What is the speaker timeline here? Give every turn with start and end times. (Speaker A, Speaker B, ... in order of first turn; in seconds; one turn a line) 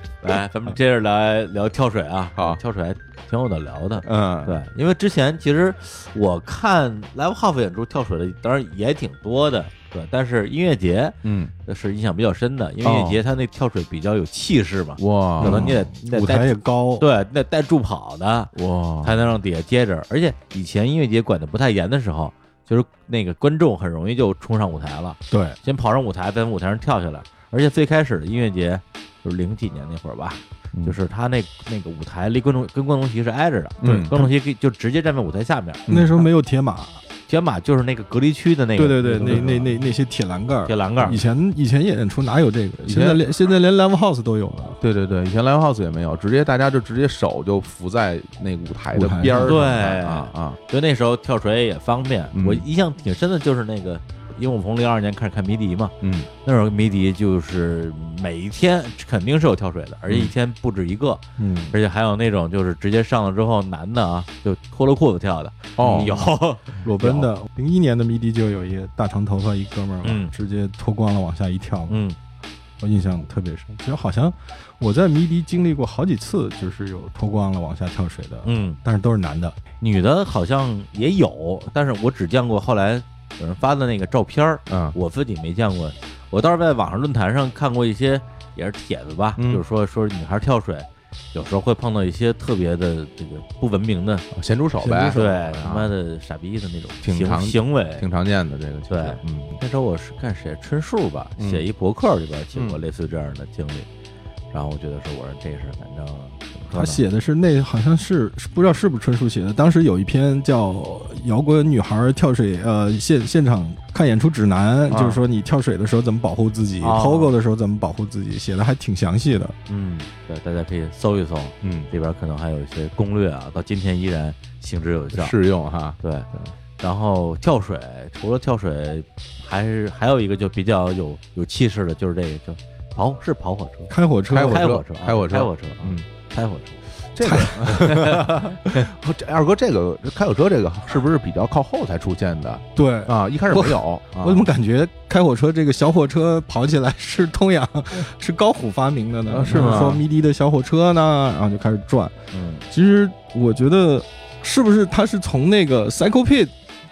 Speaker A: 0.2-11.2
Speaker B: 4.0-4.6
Speaker B: 11.2-11.5
Speaker A: 11.7-35.9
Speaker B: 12.8-13.2
Speaker B: 15.0-15.7
Speaker C: 15.4-17.1
Speaker B: 18.6-19.2
Speaker C: 25.3-25.6
Speaker B: 33.8-34.3
Speaker C: 33.9-34.1
Speaker B: 35.9-36.2
Speaker C: 35.9-37.0
Speaker A: 37.3-39.6
Speaker C: 38.8-44.8
Speaker B: 39.2-39.5
Speaker A: 40.7-41.2
Speaker B: 42.9-43.2
Speaker B: 44.8-50.6
Speaker C: 48.9-49.6
Speaker A: 49.3-55.9
Speaker B: 52.3-52.6
Speaker B: 56.0-56.3
Speaker A: 56.4-67.3
Speaker B: 60.1-60.3
Speaker C: 61.4-61.8
Speaker B: 65.8-66.1
Speaker C: 65.9-66.2
Speaker C: 66.8-72.0
Speaker A: 70.0-70.3
Speaker A: 71.9-72.2
Speaker C: 72.8-79.6
Speaker A: 78.5-78.8
Speaker A: 79.8-94.3
Speaker B: 84.7-85.0
Speaker B: 89.4-89.6
Speaker B: 94.3-95.9
Speaker C: 94.8-95.2
Speaker A: 95.1-98.0
Speaker B: 97.0-99.6
Speaker A: 98.9-103.9
Speaker B: 101.4-101.7
Speaker B: 102.5-102.8
Speaker A: 104.5-107.0
Speaker C: 106.7-119.5
Speaker B: 114.9-115.2
Speaker A: 116.8-117.3
Speaker A: 119.7-125.3
Speaker B: 121.6-121.9
Speaker B: 125.2-126.5
Speaker A: 126.0-126.3
Speaker A: 126.8-136.8
Speaker C: 133.9-134.8
Speaker B: 134.3-136.1
Speaker B: 137.1-144.5
Speaker C: 137.2-138.1
Speaker A: 137.7-138.4
Speaker C: 142.8-152.1
Speaker B: 149.3-150.0
Speaker A: 149.5-149.8
Speaker A: 152.3-152.6
Speaker C: 152.7-156.5